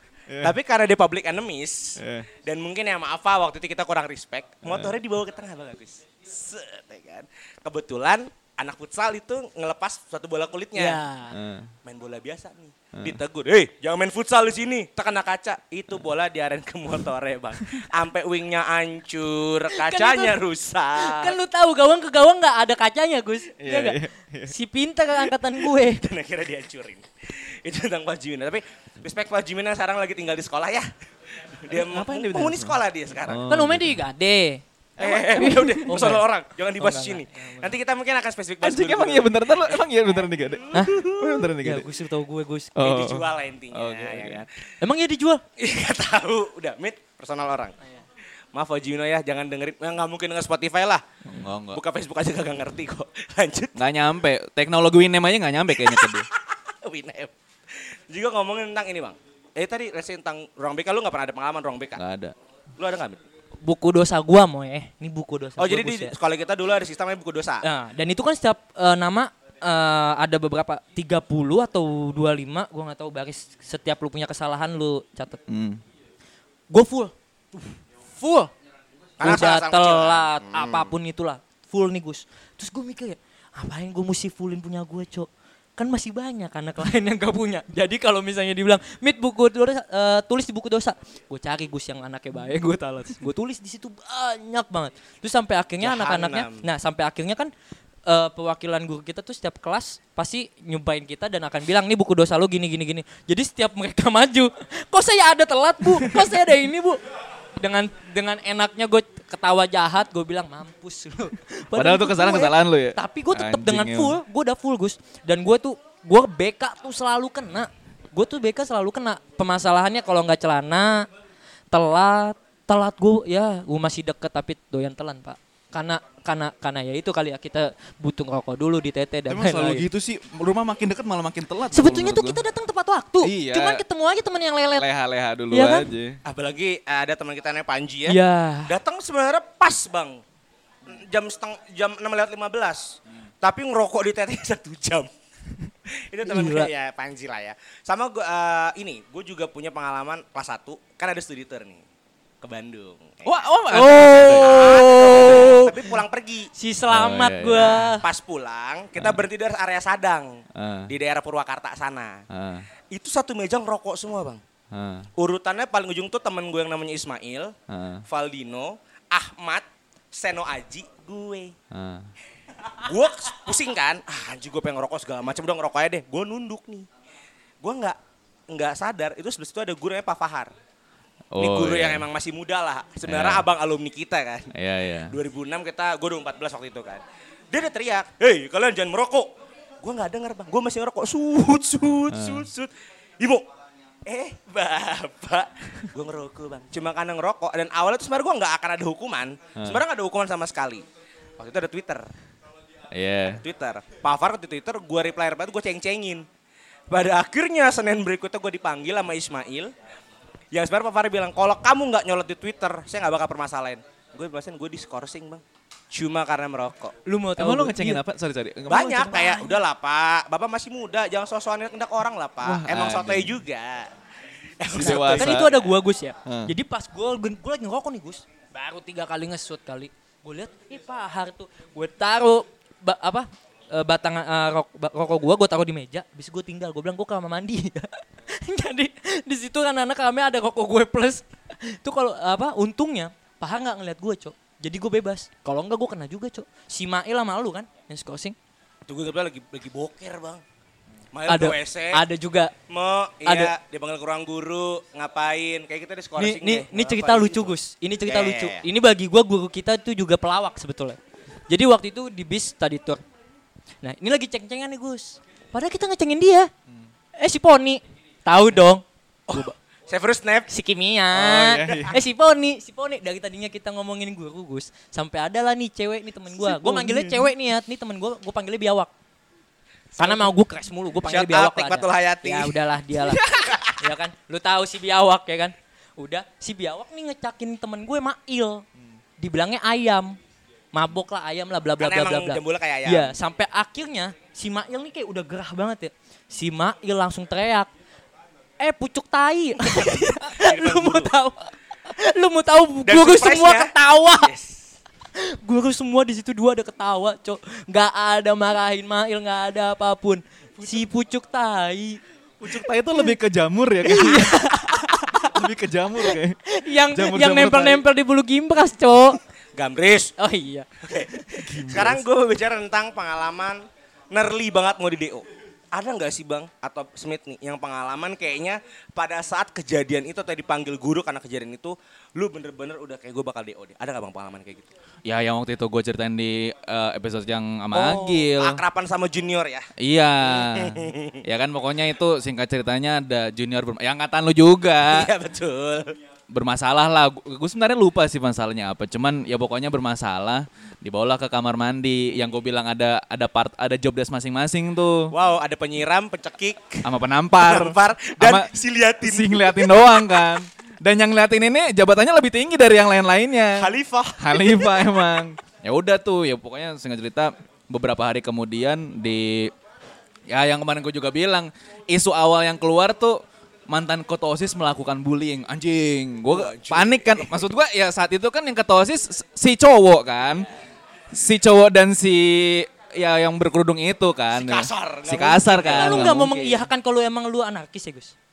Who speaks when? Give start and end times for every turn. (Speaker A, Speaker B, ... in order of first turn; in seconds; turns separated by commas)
Speaker A: 0.3-0.5, Speaker B: 0.4-11.0, Speaker A: 2.0-2.3, Speaker A: 4.7-4.9, Speaker C: 10.8-11.4, Speaker A: 11.3-11.7, Speaker B: 11.8-21.4, Speaker A: 12.9-13.2, Speaker C: 19.7-20.4, Speaker C: 20.9-26.0, Speaker A: 23.6-24.5, Speaker B: 25.8-33.4, Speaker A: 31.7-34.0, Speaker C: 33.5-36.2, Speaker B: 35.0-39.8, Speaker A: 35.0-36.1, Speaker C: 36.8-37.7, Speaker A: 38.6-41.9, Speaker B: 40.6-41.5, Speaker C: 40.7-41.0, Speaker C: 41.6-42.8, Speaker A: 42.8-44.4, Speaker B: 42.8-44.5, Speaker C: 44.8-45.4, Speaker B: 45.6-47.8, Speaker B: 48.5-51.0, Speaker A: 51.3-51.8, Speaker B: 51.7-53.8, Speaker A: 53.8-56.3, Speaker B: 55.8-62.0, Speaker A: 62.0-62.4, Speaker B: 62.8-63.2, Speaker C: 63.6-66.2, Speaker B: 65.6-67.7, Speaker C: 67.6-75.4, Speaker A: 75.5-75.8, Speaker C: 76.7-77.1, Speaker C: 78.2-78.5, Speaker B: 79.2-81.0, Speaker C: 79.2-97.5, Speaker B: 95.8-96.7, Speaker C: 98.1-107.0, Speaker C: 107.6-121.1, Speaker A: 111.8-114.2, Speaker C: 121.7-129.8, Speaker A: 129.3-132.4, Speaker C: 131.7-134.9, Speaker A: 133.2-133.8, Speaker A: 134.8-136.2, Speaker C: 135.5-135.9, Speaker B: 136.2-140.2, Speaker C: 138.1-138.8, Speaker B: 140.8-145.1, Speaker B: 145.9-151.8, Speaker C: 146.3-146.7, Speaker B: 152.4-153.3, Speaker A: 153.2-155.6, Speaker C: 153.7-155.9, Speaker B: 154.2-156.5, Speaker C: 156.6-158.1, Speaker A: 156.9-157.9, Speaker B: 157.9-162.2, Speaker A: 160.6-160.9, Speaker A: 162.3-162.7, Speaker B: 162.9-164.4, Speaker A: 164.7-165.1, Speaker B: 165.2-167.6, Speaker A: 167.7-168.0, Speaker B: 168.1-171.6, Speaker A: 171.7-172.1, Speaker B: 172.7-176.9, Speaker B: 177.6-178.0, Speaker B: 178.5-180.5, Speaker A: 181.3-182.1, Speaker B: 181.4-184.5, Speaker A: 183.1-183.5, Speaker A: 184.5-185.2, Speaker B: 185.1-189.3, Speaker B: 189.8-193.4, Speaker A: 192.1-192.4, Speaker B: 194.1-200.8, Speaker A: 199.6-199.8, Speaker B: 201.4-202.1, Speaker A: 202.9-203.4, Speaker B: 203.4-206.3, Speaker B: 206.9-209.7, Speaker B: 210.5-216.9, Speaker C: 217.1-218.0, Speaker A: 217.4-219.4, Speaker B: 218.7-223.9, Speaker A: 222.4-223.4, Speaker B: 224.6-225.5, Speaker A: 224.7-225.7, Speaker C: 224.8-248.4, Speaker A: 226.2-226.5, Speaker B: 248.9-250.4, Speaker B: 251.1-252.0, Speaker C: 251.3-252.5, Speaker B: 252.7-257.6, Speaker C: 253.2-253.5, Speaker C: 256.2-263.0, Speaker B: 258.1-258.6, Speaker C: 263.8-266.5, Speaker C: 267.2-269.5, Speaker B: 269.3-270.5, Speaker C: 270.5-278.9, Speaker A: 271.1-272.0, Speaker B: 276.3-277.3, Speaker B: 279.9-280.3, Speaker C: 280.0-288.6, Speaker B: 281.0-282.6, Speaker B: 283.3-283.8, Speaker C: 289.2-290.2, Speaker C: 290.7-297.7, Speaker B: 291.8-293.2, Speaker C: 298.6-304.3, Speaker B: 299.7-301.1, Speaker B: 302.9-304.8, Speaker C: 305.1-312.0, Speaker A: 312.4-314.5, Speaker C: 312.5-313.1, Speaker C: 313.8-315.5, Speaker A: 315.1-316.4, Speaker C: 316.0-319.2, Speaker A: 316.9-317.8, Speaker B: 319.6-320.1, Speaker C: 320.2-321.6, Speaker B: 320.8-334.7, Speaker A: 321.4-322.0, Speaker A: 335.1-338.6, Speaker B: 337.7-339.7, Speaker A: 339.8-345.1, Speaker B: 340.2-341.2, Speaker B: 344.9-345.9, Speaker A: 346.3-355.1, Speaker B: 355.1-356.9, Speaker A: 356.9-358.5, Speaker B: 357.4-359.9, Speaker A: 359.0-369.5, Speaker B: 363.6-364.9, Speaker A: 370.3-380.5, Speaker B: 376.3-377.4, Speaker A: 381.1-386.5, Speaker B: 384.3-386.6, Speaker C: 385.7-388.1